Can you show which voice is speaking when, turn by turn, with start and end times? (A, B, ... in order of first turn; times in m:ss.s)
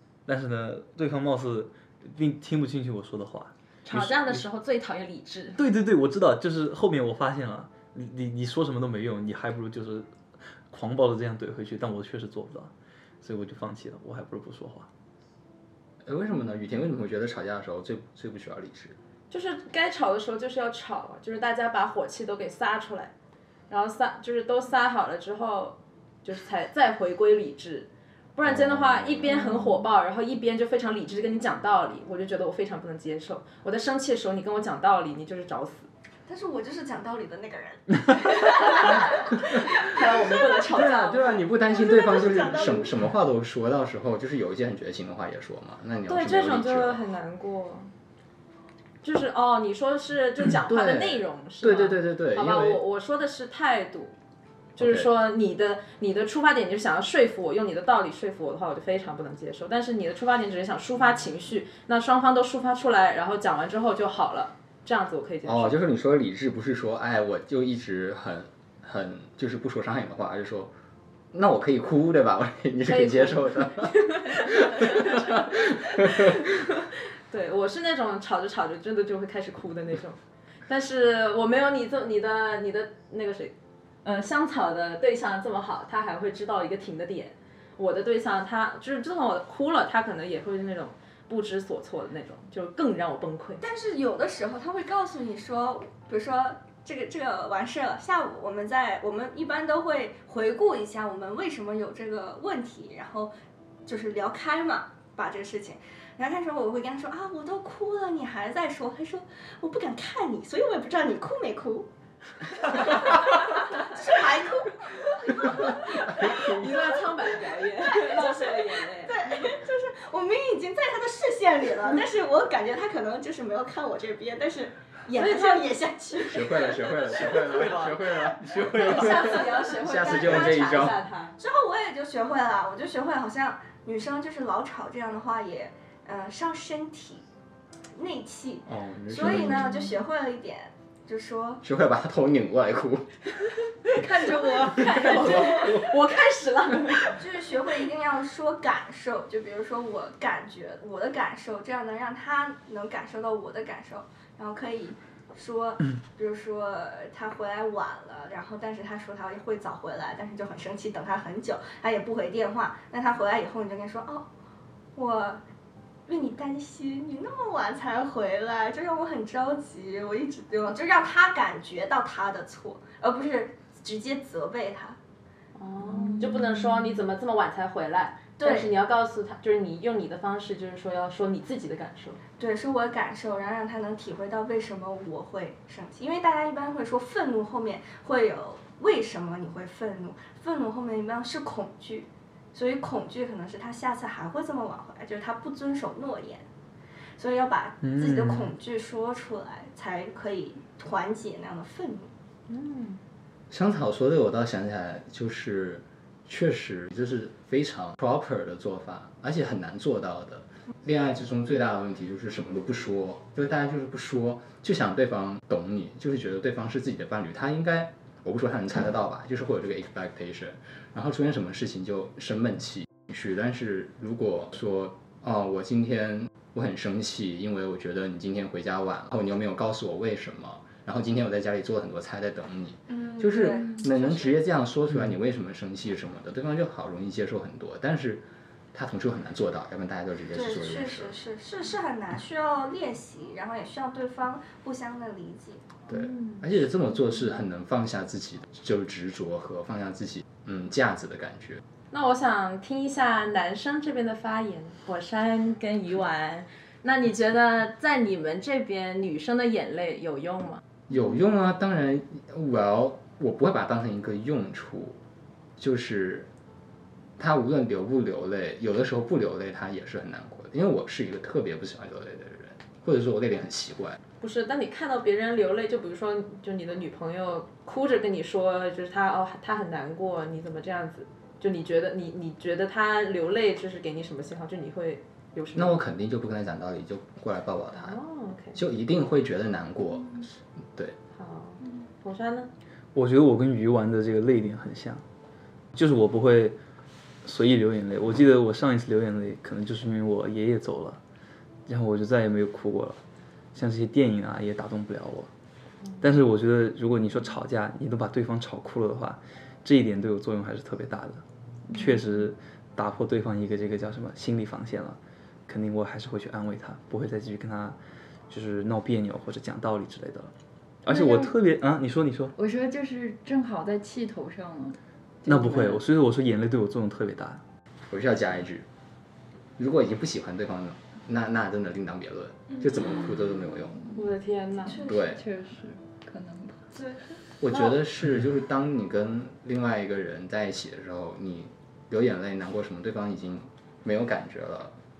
0:00.3-0:04.4 A
0:03.9-0:05.6 B
0:05.6-0:10.1 A
0:10.7-0:12.7 A
0:13.2-0:14.9 A
0:16.0-0:19.0 C
0:19.3-0:23.1 B
0:23.7-0:35.9 B
0:28.4-0:29.4 C
0:36.3-0:43.0 D
0:38.5-0:41.4 B
0:40.7-0:47.0 C
0:46.1-0:47.9 B
0:49.0-0:54.1 B
0:50.6-0:52.8 C
0:54.8-1:05.8 B
0:54.8-0:55.1 C
1:05.4-1:10.7 C
1:11.3-1:16.5 C
1:12.8-1:33.6 B
1:33.6-1:43.3 D
1:43.8-1:51.9 D
1:52.5-2:07.1 D
1:55.7-1:59.5 B
1:56.1-1:56.7 C
2:05.1-2:05.7 B
2:06.3-2:11.0 C
2:07.2-2:09.5 A
2:08.7-2:11.4 B
2:09.6-2:17.2 D
2:18.0-2:21.6 D
2:18.7-2:19.8 C
2:19.3-2:19.9 B
2:21.6-2:23.2 C
2:23.8-2:27.2 B
2:25.0-2:25.7 C
2:25.1-2:25.6 D
2:27.1-2:44.3 D
2:45.0-2:45.4 D
2:46.1-2:55.0 D
2:55.6-3:02.2 B
2:56.0-2:56.8 E
2:58.4-2:58.7 D
3:02.4-3:16.5 D
3:17.2-3:22.1 D
3:17.8-3:18.5 A
3:22.5-3:23.0 B
3:23.5-4:01.2 C
3:52.9-3:54.4 D
4:00.3-4:05.7 D
4:05.9-4:11.6 C
4:05.9-4:06.4 B
4:11.9-4:20.6 B
4:20.9-4:25.0 C
4:25.6-4:26.3 C
4:27.2-4:34.0 C
4:34.2-4:45.8 B
4:45.6-4:48.0 C
4:47.7-4:48.6 B
4:48.5-4:51.0 C
4:51.1-4:52.5 B
4:52.9-4:55.0 A
4:55.7-4:56.6 A
4:57.2-5:01.0 A
5:01.7-5:03.0 A
5:03.6-5:05.3 A
5:06.0-5:17.8 A
5:18.3-5:20.3 A
5:20.8-5:22.3 A
5:20.9-5:21.4 E
5:22.4-5:25.8 E
5:25.3-5:27.4 A
5:27.9-5:28.7 C
5:29.6-5:33.8 C
5:33.7-5:34.0 E
5:34.0-5:34.8 B
5:34.7-5:35.1 D
5:34.7-5:36.6 E
5:34.8-5:35.2 C
5:36.7-5:37.0 D
5:37.4-5:44.7 C